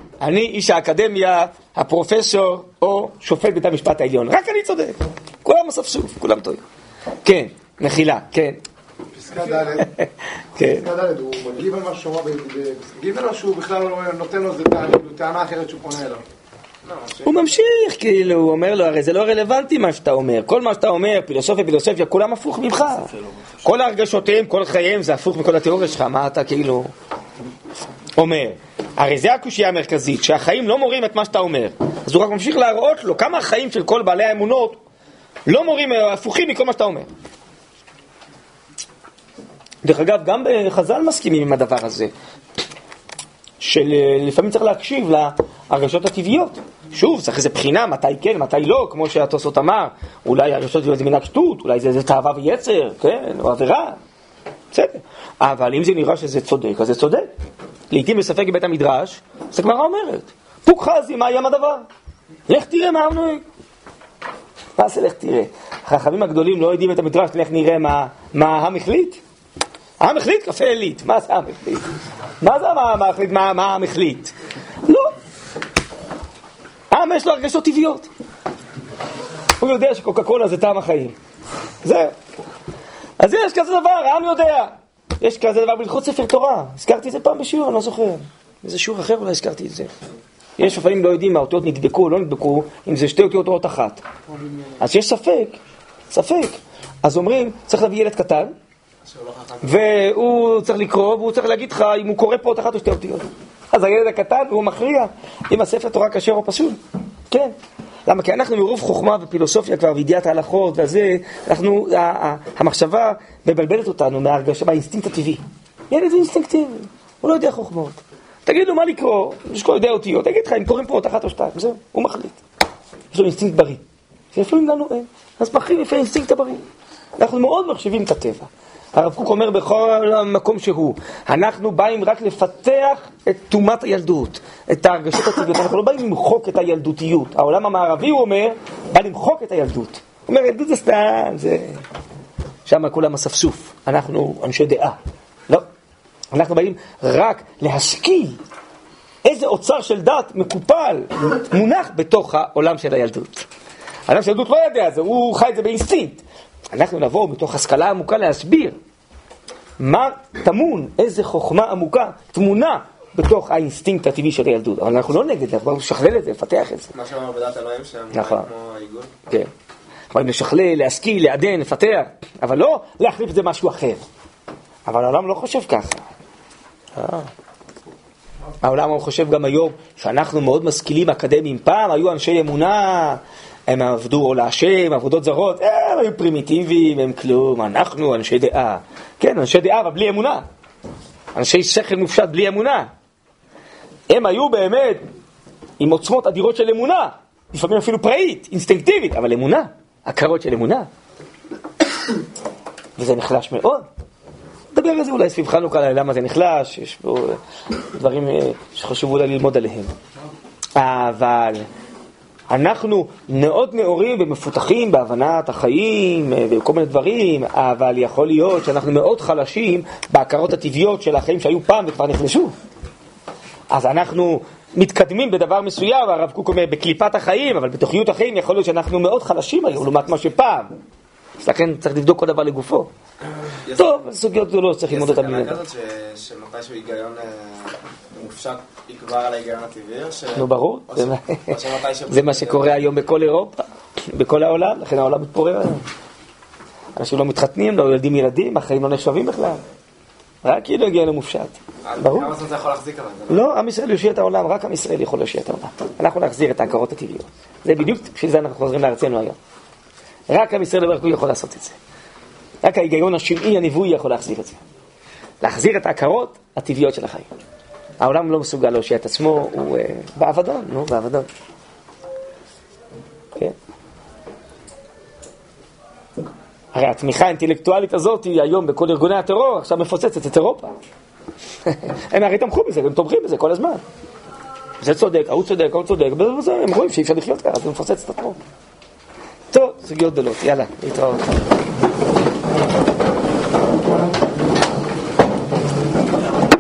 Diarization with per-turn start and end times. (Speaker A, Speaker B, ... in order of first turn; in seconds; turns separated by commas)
Speaker A: 0.2-6.6, Speaker A: 7.2-8.6, Speaker B: 9.1-9.9, Speaker A: 10.6-10.8, Speaker B: 10.6-16.2, Speaker A: 17.2-23.1, Speaker A: 23.6-26.9, Speaker A: 28.2-34.8, Speaker A: 35.5-37.1, Speaker A: 39.8-42.1, Speaker A: 43.6-54.0, Speaker A: 54.7-57.3, Speaker A: 57.9-61.9, Speaker A: 62.5-63.4, Speaker A: 64.8-69.2, Speaker A: 70.0-71.9, Speaker A: 72.4-74.3, Speaker A: 74.8-75.1, Speaker A: 76.9-78.1, Speaker A: 79.6-81.1, Speaker A: 81.8-82.1, Speaker A: 83.2-89.9, Speaker A: 90.6-94.0, Speaker A: 94.8-95.6, Speaker A: 96.1-98.5, Speaker C: 99.0-100.0, Speaker A: 99.6-106.8, Speaker A: 108.1-122.4, Speaker A: 123.1-123.8, Speaker A: 124.3-126.6, Speaker A: 127.2-141.8, Speaker A: 142.7-145.0, Speaker A: 146.3-148.4, Speaker A: 149.2-153.5, Speaker A: 154.1-158.8, Speaker A: 159.8-166.9, Speaker C: 166.9-169.1, Speaker A: 168.1-168.5, Speaker A: 170.1-174.0, Speaker A: 174.9-176.1, Speaker A: 177.0-177.3, Speaker A: 178.6-190.4, Speaker A: 191.3-192.9, Speaker A: 194.1-195.0, Speaker A: 195.8-200.9, Speaker A: 203.0-203.8, Speaker A: 204.7-207.4, Speaker A: 207.9-209.9, Speaker A: 210.8-211.7, Speaker A: 212.5-222.5, Speaker A: 223.7-230.7, Speaker A: 231.4-232.9, Speaker C: 233.7-234.0, Speaker A: 233.8-235.5, Speaker C: 234.9-242.7, Speaker A: 240.3-241.6, Speaker A: 242.1-245.8, Speaker A: 247.0-249.6, Speaker A: 250.4-252.3, Speaker C: 251.8-253.5, Speaker A: 253.3-259.4, Speaker A: 260.3-261.8, Speaker A: 262.6-264.6, Speaker A: 265.4-267.3, Speaker A: 268.0-271.3, Speaker A: 276.7-280.7, Speaker A: 281.7-283.8, Speaker A: 284.8-288.4, Speaker A: 289.5-291.4